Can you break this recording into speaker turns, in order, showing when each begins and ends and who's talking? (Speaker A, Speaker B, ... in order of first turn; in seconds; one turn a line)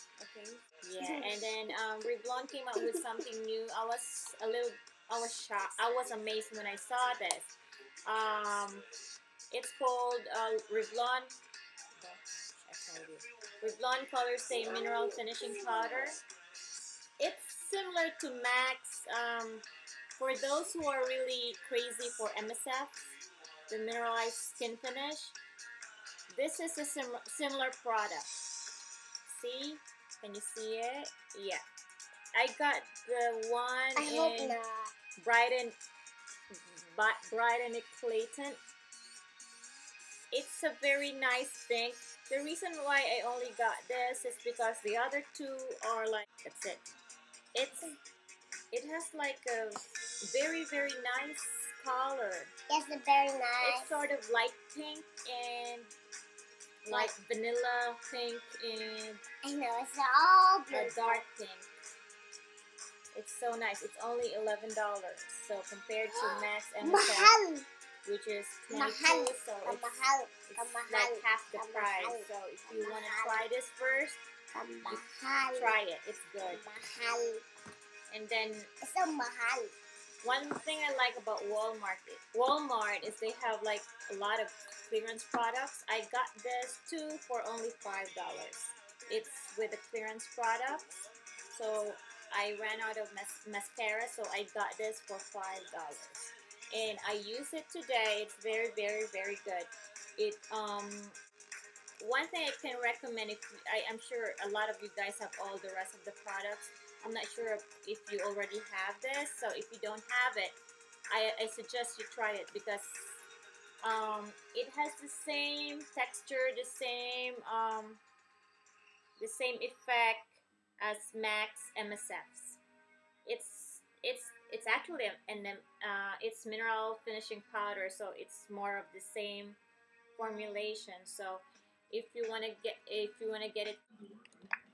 Speaker A: 0.2-7.5
Speaker B: 1.0-1.3
Speaker B: 2.8-3.0
Speaker A: 8.1-8.9
Speaker A: 9.5-11.3
Speaker A: 12.0-16.2
Speaker B: 14.5-16.0
Speaker A: 17.2-19.6
Speaker A: 20.2-23.1
Speaker A: 23.7-25.4
Speaker A: 26.3-28.3
Speaker A: 29.3-31.6
Speaker A: 32.4-34.6
Speaker B: 34.0-34.9
Speaker A: 35.2-35.8
Speaker A: 36.6-38.6
Speaker A: 40.3-46.8
Speaker A: 47.5-47.9
Speaker A: 48.7-52.5
Speaker B: 52.7-54.0
Speaker A: 53.6-55.9
Speaker A: 56.9-59.2
Speaker B: 59.4-61.2
Speaker A: 60.7-61.7
Speaker A: 63.1-67.3
Speaker B: 66.1-67.7
Speaker A: 68.1-74.2
Speaker B: 68.7-73.4
Speaker B: 74.5-75.8
Speaker A: 75.5-76.6
Speaker B: 76.4-77.4
Speaker A: 78.1-78.7
Speaker B: 78.8-79.8
Speaker A: 80.2-90.9
Speaker A: 91.5-101.2
Speaker A: 102.0-110.6
Speaker A: 111.1-113.2
Speaker A: 113.8-118.0
Speaker A: 119.2-122.6
Speaker A: 123.2-129.6
Speaker A: 130.2-133.8